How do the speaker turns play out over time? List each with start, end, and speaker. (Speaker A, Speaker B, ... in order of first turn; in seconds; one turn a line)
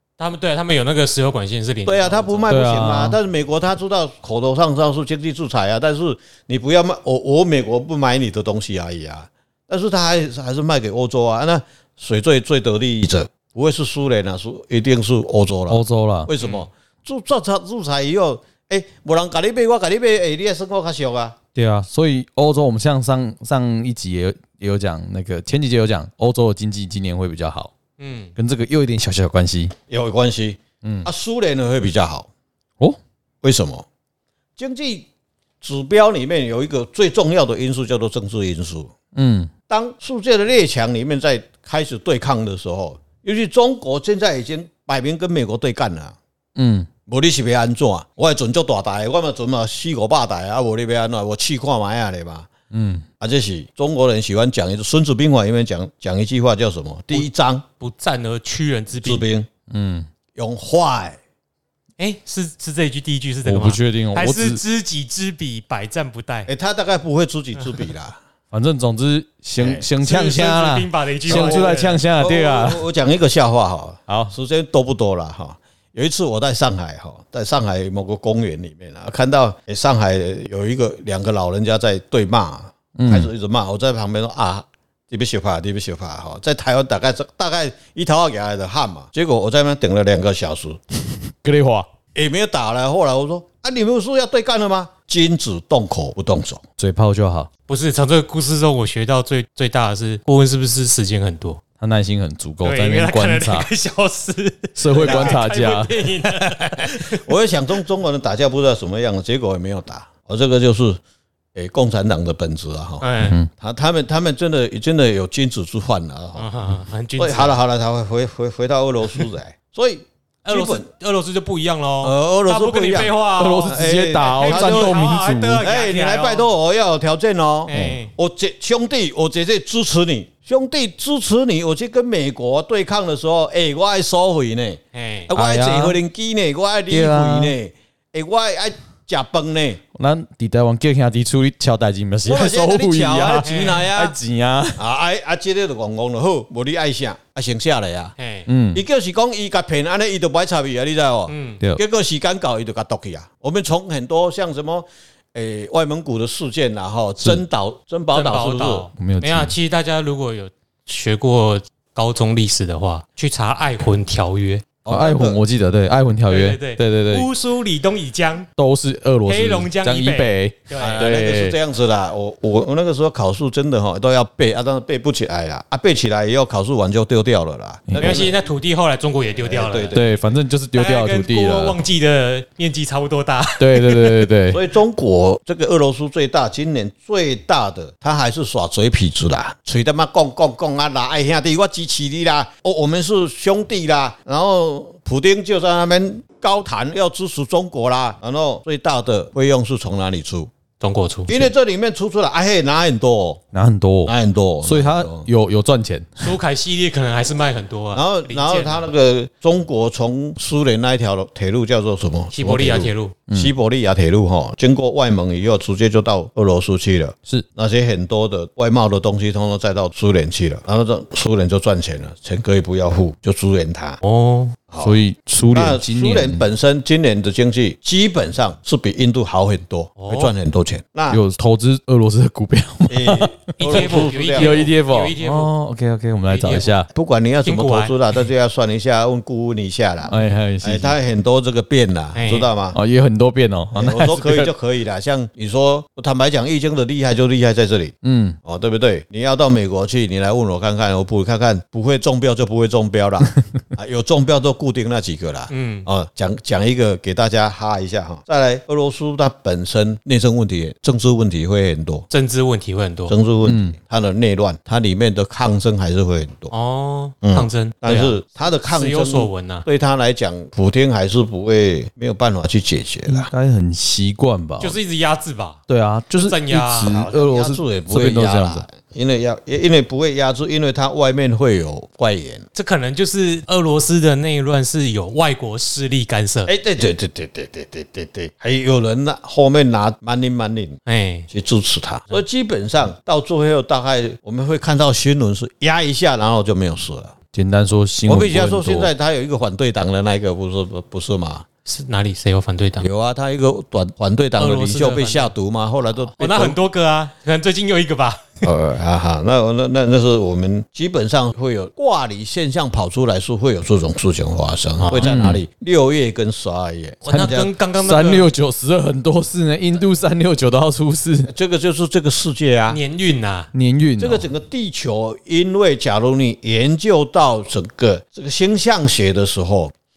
Speaker A: 0.2-2.5
Speaker B: 1.9-21.4
Speaker C: 2.5-3.2
Speaker C: 15.7-16.3
Speaker A: 16.4-16.7
Speaker C: 21.5-27.7
Speaker A: 28.0-28.3
Speaker C: 28.4-29.8
Speaker B: 29.9-32.3
Speaker C: 30.8-31.1
Speaker B: 33.4-33.9
Speaker B: 34.6-35.1
Speaker B: 35.6-38.9
Speaker C: 39.1-39.5
Speaker B: 39.7-46.2
Speaker C: 46.6-46.9
Speaker B: 47.1-52.5
Speaker C: 52.7-53.1
Speaker B: 53.2-57.6
Speaker A: 57.8-59.3
Speaker B: 59.0-59.5
Speaker C: 59.7-60.1
Speaker B: 60.3-61.2
Speaker A: 62.0-66.5
Speaker C: 63.5-64.6
Speaker B: 66.5-68.2
Speaker C: 68.5-72.8
Speaker B: 69.6-69.8
Speaker A: 70.0-72.0
Speaker B: 71.2-90.8
Speaker C: 74.1-74.3
Speaker C: 83.0-83.3
Speaker C: 91.3-91.9
Speaker B: 92.1-96.6
Speaker C: 96.8-97.5
Speaker A: 97.7-101.6
Speaker C: 101.8-103.7
Speaker A: 102.6-107.2
Speaker C: 104.8-106.2
Speaker B: 104.9-105.4
Speaker B: 106.6-111.0
Speaker B: 111.5-113.0
Speaker A: 113.0-113.4
Speaker C: 113.2-113.5
Speaker B: 113.6-116.5
Speaker A: 116.3-117.6
Speaker B: 117.2-120.8
Speaker A: 120.4-126.5
Speaker B: 122.0-125.0
Speaker C: 123.4-125.6
Speaker B: 125.6-139.8
Speaker A: 127.7-128.1
Speaker C: 127.7-128.0
Speaker A: 134.9-135.3
Speaker C: 135.3-136.0
Speaker C: 136.9-137.5
Speaker C: 139.9-144.8
Speaker B: 142.3-144.2
Speaker A: 143.4-143.8
Speaker B: 144.8-148.1
Speaker A: 148.2-148.5
Speaker C: 148.5-148.8
Speaker B: 148.7-158.9
Speaker A: 151.3-151.6
Speaker A: 158.1-164.7
Speaker C: 159.0-159.5
Speaker B: 164.8-165.4
Speaker C: 164.9-167.3
Speaker A: 166.3-168.5
Speaker C: 168.6-171.6
Speaker A: 169.3-171.0
Speaker B: 170.8-178.3
Speaker C: 177.9-178.2
Speaker A: 178.0-180.0
Speaker B: 179.4-180.2
Speaker C: 179.9-181.8
Speaker A: 180.7-184.3
Speaker C: 183.6-184.6
Speaker B: 184.5-200.5
Speaker A: 200.8-201.5
Speaker B: 201.3-203.4
Speaker C: 203.5-206.3
Speaker B: 204.1-205.3
Speaker A: 206.2-208.9
Speaker B: 207.9-224.0
Speaker A: 212.3-213.2
Speaker A: 224.0-224.6
Speaker B: 224.7-225.0
Speaker C: 224.8-226.4
Speaker B: 225.5-231.2
Speaker A: 230.0-230.3
Speaker C: 231.1-236.9
Speaker B: 232.9-234.7
Speaker A: 233.6-235.5
Speaker A: 236.3-236.8
Speaker B: 236.9-242.8
Speaker A: 237.4-238.0
Speaker C: 240.1-241.0
Speaker A: 242.2-242.5
Speaker C: 242.7-244.5
Speaker B: 243.7-247.9
Speaker C: 248.0-248.4
Speaker B: 248.4-262.1
Speaker A: 255.5-255.8
Speaker A: 262.1-263.1
Speaker B: 263.1-266.5
Speaker C: 263.4-263.8
Speaker A: 266.5-269.6
Speaker B: 267.2-273.3
Speaker C: 273.1-274.8
Speaker A: 274.6-275.6
Speaker C: 275.7-278.6
Speaker A: 276.1-277.1
Speaker B: 276.8-282.5
Speaker A: 282.5-286.5
Speaker B: 286.5-290.8
Speaker A: 290.9-291.3
Speaker B: 291.3-297.1
Speaker C: 297.3-298.9
Speaker B: 298.1-301.5
Speaker A: 301.6-302.9
Speaker B: 302.8-306.6
Speaker A: 304.4-305.3
Speaker A: 306.1-308.5
Speaker B: 308.4-317.5
Speaker A: 314.8-315.1
Speaker C: 314.9-315.4
Speaker A: 317.1-318.3
Speaker C: 317.8-321.3
Speaker B: 321.3-322.8
Speaker A: 322.7-323.5
Speaker C: 323.5-324.2
Speaker B: 324.0-329.8